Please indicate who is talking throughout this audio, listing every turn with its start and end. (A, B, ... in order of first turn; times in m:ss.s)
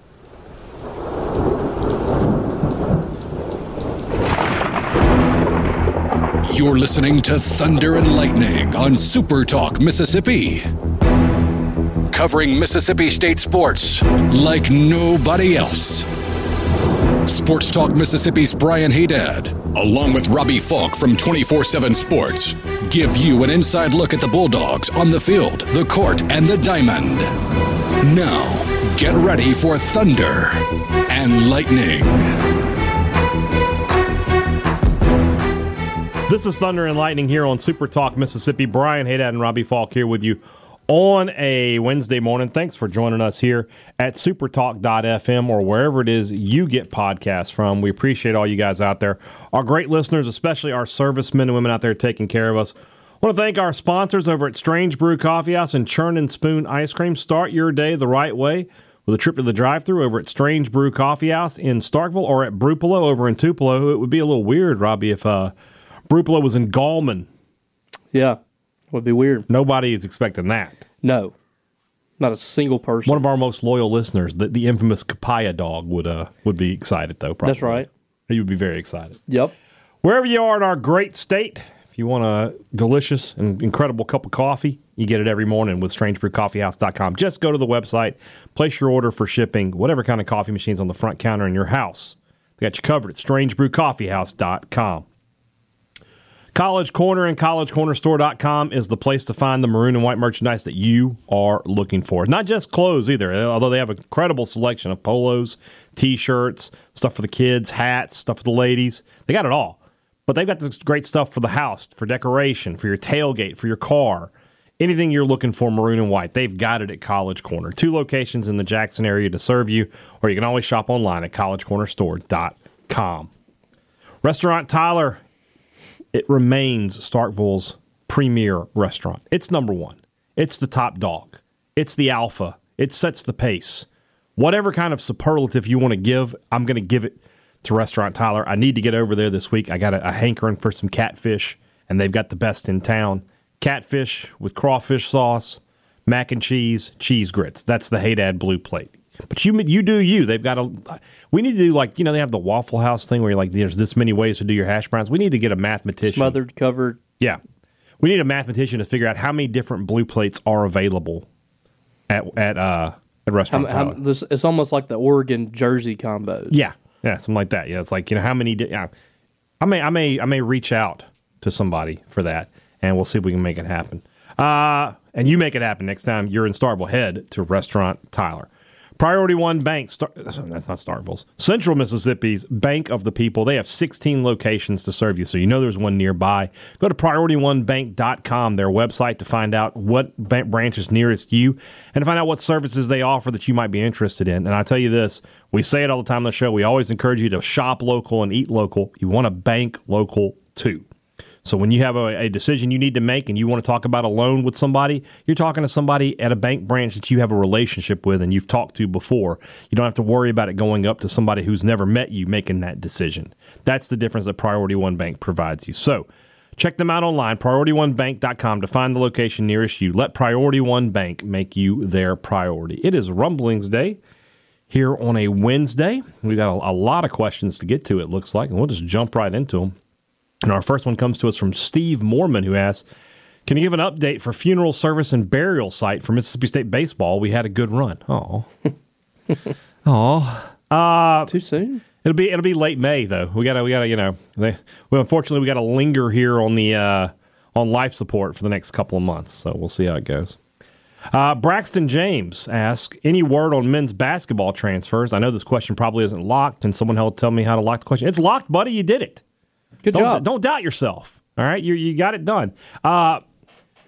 0:06.4-0:10.7 A
0:12.1-0:16.1 A
0:17.2-0:27.3 A
0:28.0-0:32.4 A
0:36.3-1:05.5 B
1:06.1-1:07.3 B
1:08.1-1:08.4 C
1:08.9-1:09.5 C
1:09.5-1:10.8 B
1:11.0-1:11.3 C
1:12.2-1:13.2 C
1:13.0-1:19.2 B
1:17.4-1:17.9 C
1:19.3-1:19.5 C
1:20.0-1:35.0 B
1:36.5-2:03.3 B
2:04.2-2:05.2 B
2:06.1-2:36.4 B
2:36.0-2:37.0 C
2:38.0-2:41.2 B
2:42.1-2:44.0 B
2:43.5-2:46.6 C
2:46.5-2:48.9 B
2:49.6-3:20.8 B
3:21.4-3:36.0 B
3:36.6-3:44.0 B
3:44.7-3:49.7 B
3:50.4-3:52.8 B
3:53.4-3:58.5 B
3:59.8-4:01.3 B
4:01.3-4:01.8 C
4:02.0-4:10.4 B
4:11.1-4:19.2 B
4:19.8-4:20.2 C
4:19.9-4:23.2 B